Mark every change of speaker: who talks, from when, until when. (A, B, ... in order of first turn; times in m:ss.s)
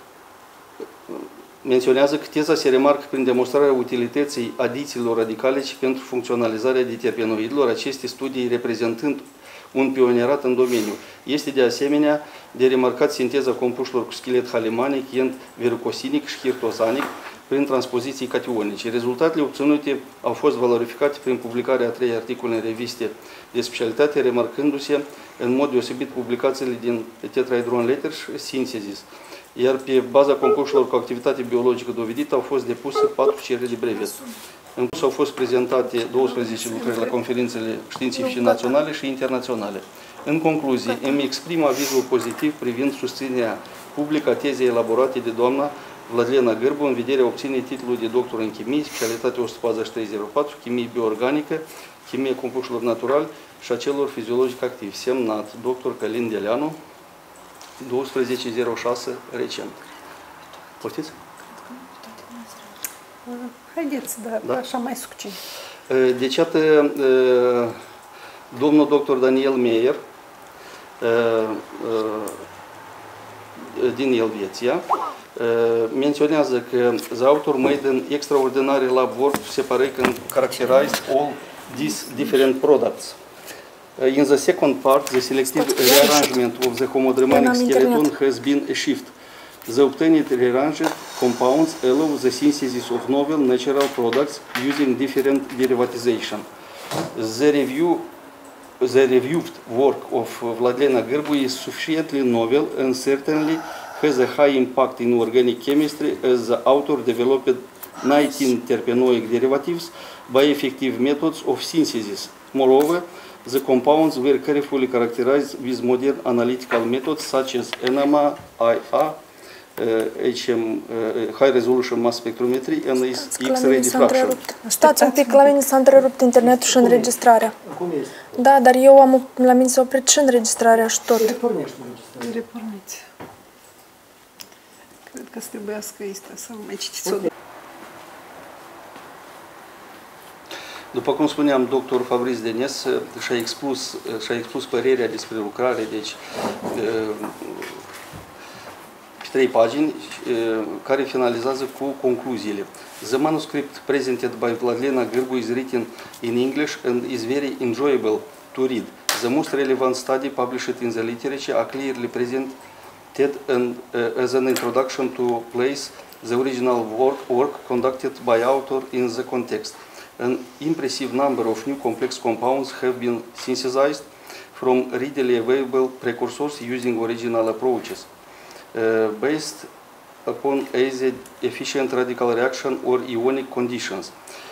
0:01.1-0:34.2 A
0:34.8-0:56.8 A
0:57.8-0:59.8 A
1:00.8-1:01.2 A
1:03.3-1:05.4 B
1:05.9-1:07.8 A
1:08.5-1:10.0 A
1:11.0-1:12.4 A
1:13.6-1:23.2 A
1:24.0-1:29.1 A
1:25.8-1:26.3 C
1:27.3-1:28.1 C
1:29.7-1:36.5 A
1:37.1-1:38.1 A
1:38.8-1:59.2 A
1:59.8-2:04.4 A
2:03.2-2:07.5 C
2:04.6-2:05.5 B
2:06.4-2:08.3 D
2:08.4-2:11.3 C
2:11.1-2:12.4 D
2:12.2-2:13.0 B
2:15.1-2:17.3 B
2:20.9-2:26.2 A
2:26.7-2:27.8 A
2:29.2-2:42.6 A
2:43.1-2:58.1 A
2:58.7-2:59.7 A
3:00.2-3:04.1 A